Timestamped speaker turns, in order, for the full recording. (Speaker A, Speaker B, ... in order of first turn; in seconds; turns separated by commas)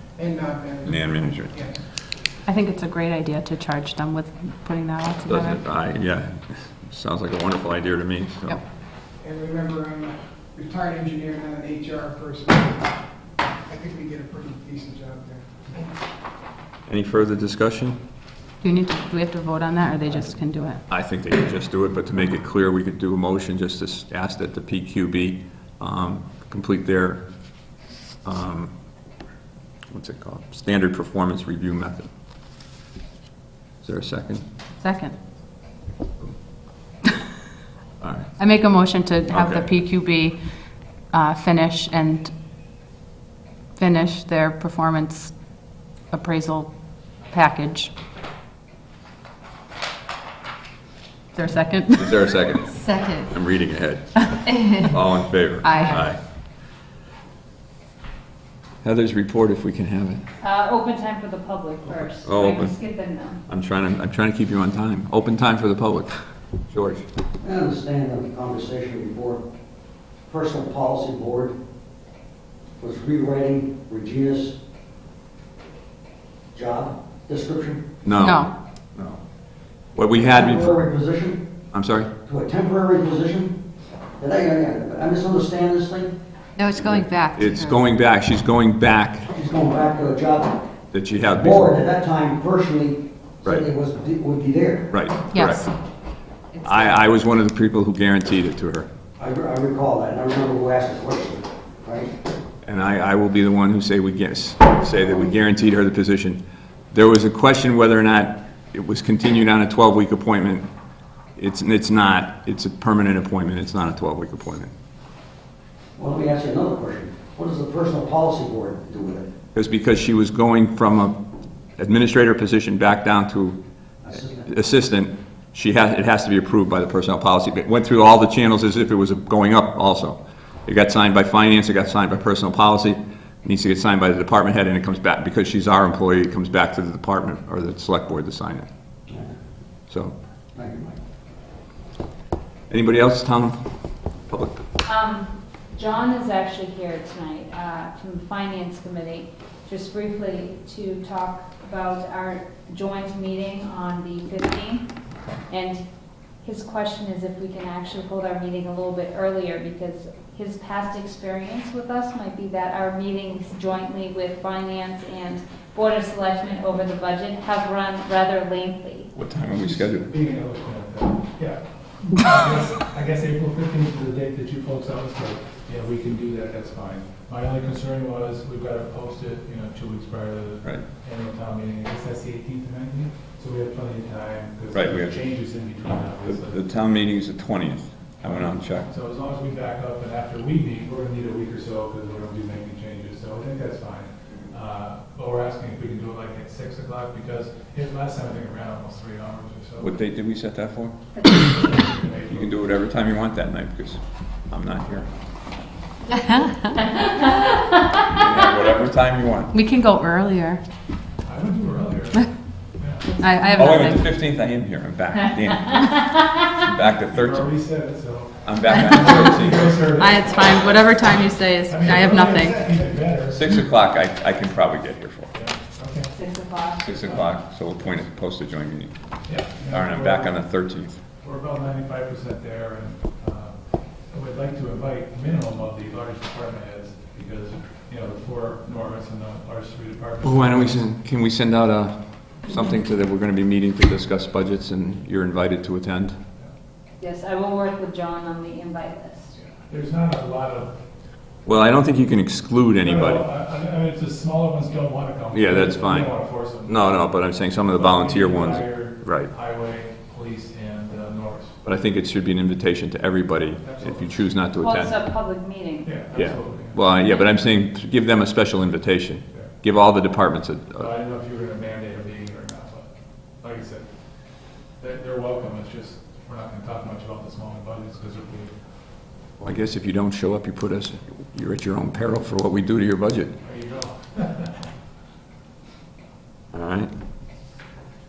Speaker A: 0.2-0.8, Speaker B: 0.8-1.6, Speaker C: 2.5-5.6, Speaker B: 5.3-8.6, Speaker A: 9.2-12.8, Speaker A: 13.7-15.4, Speaker B: 16.9-18.0, Speaker C: 18.6-20.8, Speaker D: 18.6-19.2, Speaker B: 20.9-27.2, Speaker B: 28.2-28.7, Speaker B: 29.9-32.1, Speaker B: 33.8-34.4, Speaker C: 34.8-35.1, Speaker B: 38.0-38.3, Speaker C: 38.4-40.4, Speaker B: 39.3-39.7, Speaker C: 41.1-42.3, Speaker C: 43.8-45.3, Speaker C: 46.1-46.7, Speaker C: 47.3-47.9, Speaker C: 51.4-52.1, Speaker B: 52.0-56.2, Speaker D: 52.9-53.2, Speaker C: 55.6-56.0, Speaker B: 58.8-60.2, Speaker E: 60.4-63.4, Speaker B: 62.2-62.7, Speaker B: 63.5-66.2, Speaker B: 66.7-67.0, Speaker F: 67.4-69.4, Speaker F: 70.3-71.5, Speaker F: 72.8-74.6, Speaker F: 76.5-77.9, Speaker B: 78.0-79.2, Speaker C: 78.2-78.5, Speaker B: 80.0-80.8, Speaker F: 80.1-81.4, Speaker B: 81.7-82.1, Speaker F: 82.2-83.6, Speaker F: 84.2-86.1, Speaker D: 86.6-87.7, Speaker B: 86.8-89.3, Speaker F: 89.3-90.6, Speaker B: 90.9-91.8, Speaker F: 91.3-94.9, Speaker B: 94.9-95.7, Speaker C: 95.3-95.6, Speaker B: 96.6-98.9, Speaker F: 99.2-102.1, Speaker B: 102.6-106.4, Speaker B: 106.9-110.7, Speaker B: 111.4-114.7, Speaker F: 116.0-119.3, Speaker B: 119.5-121.2, Speaker B: 121.8-123.6, Speaker F: 124.0-124.5, Speaker B: 124.5-138.7, Speaker B: 139.9-140.2, Speaker F: 140.6-141.0, Speaker B: 142.7-143.6, Speaker B: 144.3-144.6, Speaker E: 144.8-154.9, Speaker E: 155.5-155.8, Speaker E: 156.4-169.1, Speaker B: 169.2-170.1, Speaker G: 169.6-186.6, Speaker B: 184.7-185.2, Speaker B: 186.2-188.9, Speaker G: 188.3-199.9, Speaker B: 199.8-200.9, Speaker E: 201.2-201.4, Speaker G: 201.4-202.5, Speaker B: 202.3-205.1, Speaker E: 206.8-208.1, Speaker B: 208.1-209.5, Speaker C: 209.5-210.6, Speaker G: 211.2-213.1, Speaker E: 213.1-213.6, Speaker C: 213.2-214.1, Speaker B: 213.6-217.6, Speaker E: 215.7-216.1, Speaker G: 217.1-220.4, Speaker B: 218.4-219.9, Speaker C: 220.0-222.7, Speaker G: 221.7-223.7, Speaker B: 223.3-225.3, Speaker G: 225.3-226.1, Speaker E: 226.1-226.9, Speaker B: 226.8-228.9, Speaker G: 227.1-227.3, Speaker G: 229.3-230.4, Speaker B: 229.7-231.0, Speaker G: 231.2-233.6, Speaker G: 234.1-240.8, Speaker B: 240.2-246.2, Speaker E: 247.0-249.3, Speaker G: 249.6-250.7, Speaker B: 251.4-253.2, Speaker G: 252.8-257.0, Speaker B: 255.3-259.3, Speaker G: 257.7-261.6, Speaker B: 261.6-264.9, Speaker G: 263.6-264.1, Speaker E: 264.6-266.0, Speaker G: 265.9-266.8, Speaker B: 266.1-270.9, Speaker G: 270.8-272.9, Speaker G: 273.4-273.9, Speaker G: 274.8-278.5, Speaker B: 279.4-283.3, Speaker G: 283.4-284.6, Speaker B: 286.5-286.9